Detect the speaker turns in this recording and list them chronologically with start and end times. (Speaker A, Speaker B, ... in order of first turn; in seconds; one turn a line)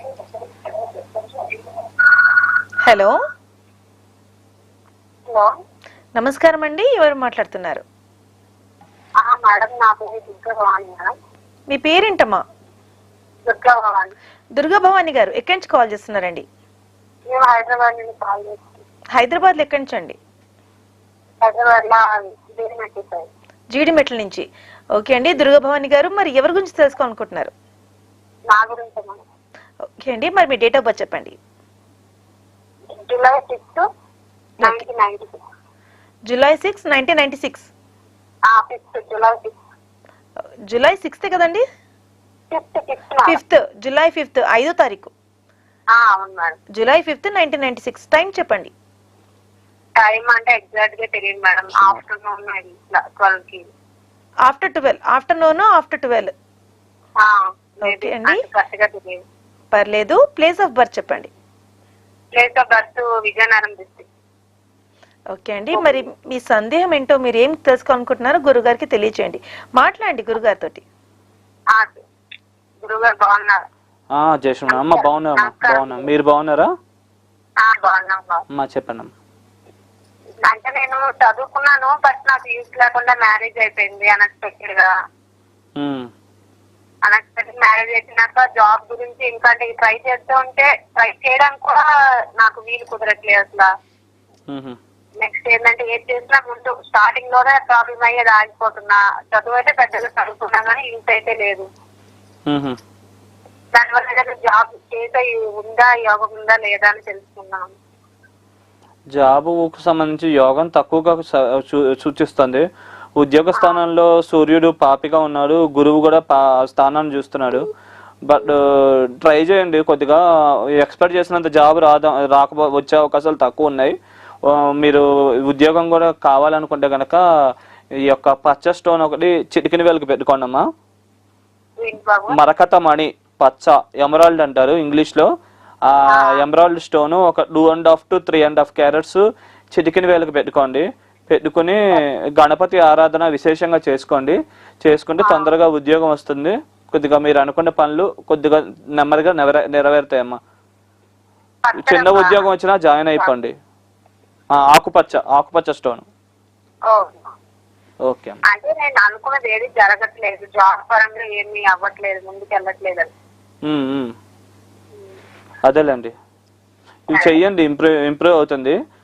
Speaker A: 0.6-1.6
Speaker B: 2.9-3.1
Speaker B: 6.2-7.8
Speaker A: 9.2-11.1
Speaker B: 11.7-12.4
Speaker A: 13.5-14.1
Speaker B: 14.6-16.4
Speaker A: 17.3-18.6
Speaker B: 19.1-20.2
Speaker A: 21.4-23.3
Speaker B: 23.7-24.4
Speaker B: 25.0-27.5
Speaker A: 28.5-29.2
Speaker B: 30.0-31.4
Speaker A: 33.0-33.8
Speaker A: 34.6-35.4
Speaker B: 36.3-37.7
Speaker A: 38.5-39.5
Speaker B: 40.7-41.6
Speaker A: 42.5-43.4
Speaker B: 43.3-45.1
Speaker A: 45.9-46.6
Speaker B: 46.7-48.7
Speaker A: 50.0-53.7
Speaker B: 54.5-56.3
Speaker A: 57.2-59.2
Speaker B: 57.8-58.4
Speaker B: 59.7-61.3
Speaker A: 62.4-64.1
Speaker B: 65.3-70.8
Speaker A: 65.8-66.0
Speaker A: 71.7-72.0
Speaker A: 72.8-73.6
Speaker C: 74.1-76.7
Speaker A: 74.7-76.1
Speaker A: 77.6-78.4
Speaker C: 78.5-79.1
Speaker A: 80.5-84.9
Speaker C: 85.8-86.1
Speaker A: 87.0-91.8
Speaker A: 92.4-93.7
Speaker C: 94.5-94.8
Speaker A: 95.2-101.7
Speaker C: 102.5-102.8
Speaker A: 103.7-107.7
Speaker C: 109.1-112.6
Speaker C: 113.2-117.7
Speaker A: 113.5-113.8
Speaker C: 118.3-120.2
Speaker C: 120.8-127.2
Speaker C: 128.1-130.6
Speaker A: 131.8-132.4
Speaker C: 132.3-135.3
Speaker C: 135.9-139.2
Speaker A: 136.1-136.4
Speaker C: 139.7-150.4
Speaker A: 145.2-145.5
Speaker A: 151.6-152.4
Speaker C: 151.8-153.5
Speaker C: 154.5-156.1
Speaker A: 156.9-157.3
Speaker C: 158.1-158.4
Speaker A: 158.5-163.1
Speaker C: 163.7-164.1
Speaker C: 165.6-166.1
Speaker C: 167.1-168.8
Speaker A: 167.1-167.4